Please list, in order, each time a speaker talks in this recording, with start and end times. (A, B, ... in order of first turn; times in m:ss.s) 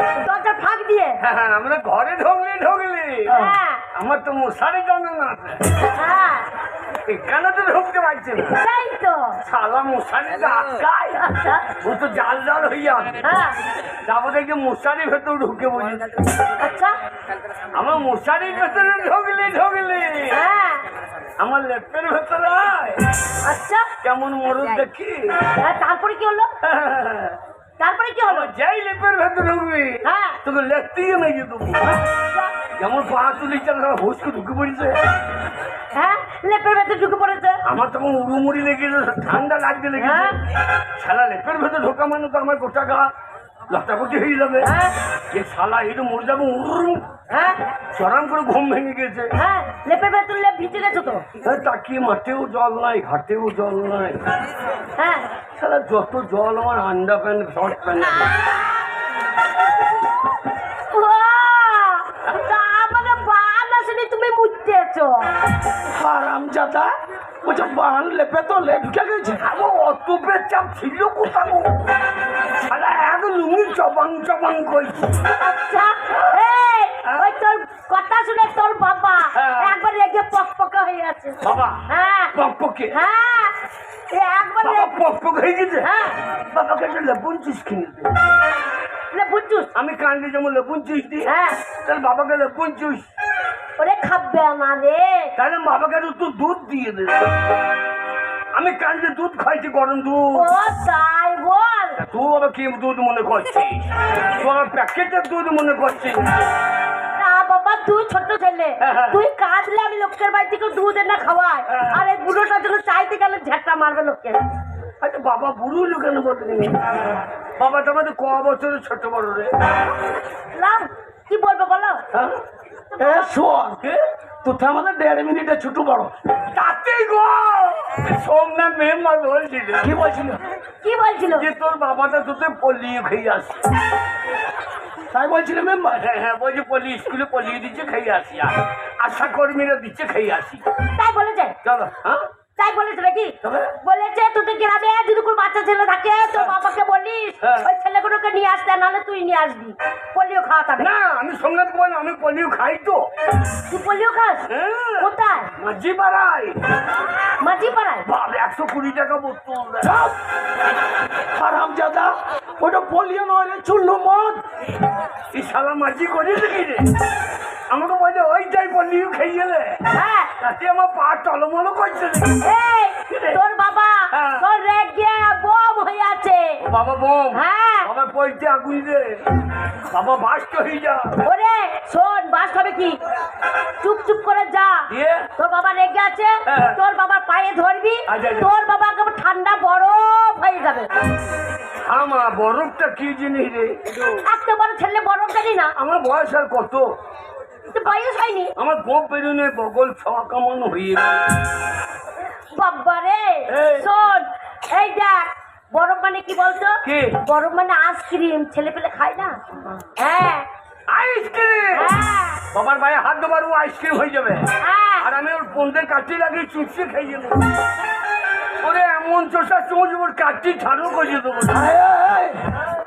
0:00.2-0:01.2 A
0:01.2-0:03.4 B
0:03.3-0:03.8 A
0:03.9-0:05.8 B
0:05.9-0:06.5 A
0:07.0-0:08.6 B
0:08.6-0:09.4 A
0:09.4-0:13.4 B
0:11.2-0:11.6 A
0:13.2-0:13.6 A
0:13.9-0:16.4 B
0:16.6-0:17.0 A
0:17.7-0:20.4 B
0:20.3-0:20.8 A
0:21.4-0:23.1 B
0:23.4-0:23.9 A
0:24.0-0:25.5 B
0:25.6-0:26.5 A
0:26.6-0:27.4 B
0:27.8-0:28.5 A
0:28.3-0:32.0 B
0:30.0-0:30.4 A
0:31.8-0:32.6 A
0:32.7-0:35.0 B
0:35.9-0:37.6 A
0:37.6-0:40.4 B
0:40.0-0:40.4 A
0:41.0-0:43.1 B
0:43.7-0:44.7 B
0:44.6-0:45.0 A
0:45.3-0:47.0 B
0:47.3-0:47.6 A
0:47.9-0:49.3 B
0:49.3-0:51.2 A
0:51.4-0:54.2 B
0:55.0-0:55.3 A
0:55.5-0:58.5 B
1:00.9-1:05.3 A
1:05.9-1:06.9 C
1:07.4-1:09.4 C
1:09.4-1:11.9 B
1:12.6-1:15.2 B
1:15.4-1:22.4 A
1:19.3-1:19.7 B
1:21.4-1:23.0 B
1:22.9-1:23.6 A
1:24.1-1:25.0 A
1:24.6-1:28.1 B
1:25.8-1:26.2 A
1:29.1-1:29.7 A
1:29.7-1:33.0 B
1:31.3-1:31.6 A
1:33.8-1:35.3 A
1:35.4-1:37.3 B
1:38.5-1:40.5 B
1:40.3-1:42.0 A
1:42.0-1:46.4 B
1:47.2-1:54.4 A
1:48.8-1:49.2 B
1:51.7-1:52.0 B
1:55.0-1:59.5 B
2:00.5-2:02.0 A
2:02.1-2:02.4 B
2:02.9-2:03.3 A
2:03.0-2:03.8 C
2:04.4-2:06.1 C
2:06.5-2:10.0 B
2:09.8-2:10.4 C
2:10.8-2:11.5 A
2:11.3-2:13.6 B
2:15.1-2:16.0 C
2:15.9-2:20.6 B
2:20.9-2:21.6 A
2:21.6-2:22.3 B
2:22.6-2:30.9 A
2:23.4-2:23.8 B
2:27.4-2:27.7 B
2:30.8-2:33.1 B
2:33.7-2:34.5 A
2:34.5-2:36.6 B
2:35.0-2:35.5 A
2:37.4-2:38.1 A
2:38.0-2:40.0 B
2:39.8-2:40.1 C
2:41.3-2:44.4 C
2:45.3-2:46.9 B
2:47.7-2:49.9 B
2:49.9-2:50.3 A
2:50.4-2:52.4 B
2:52.4-2:56.6 A
2:53.1-2:53.4 B
2:54.1-2:54.4 B
2:56.6-2:59.2 B
2:57.3-2:57.9 A
2:59.9-3:01.2 B
3:01.2-3:03.0 A
3:03.8-3:10.9 A
3:04.9-3:05.3 B
3:06.4-3:06.8 B
3:08.1-3:08.5 B
3:11.8-3:13.8 B
3:14.2-3:15.7 A
3:15.8-3:16.8 B
3:17.7-3:18.5 A
3:18.6-3:21.3 B
3:22.3-3:30.5 A
3:23.5-3:23.9 B
3:26.8-3:27.2 B
3:30.9-3:32.0 B
3:31.7-3:32.4 A
3:32.5-3:37.4 B
3:34.6-3:35.1 A
3:38.6-3:41.7 B
3:41.5-3:42.5 C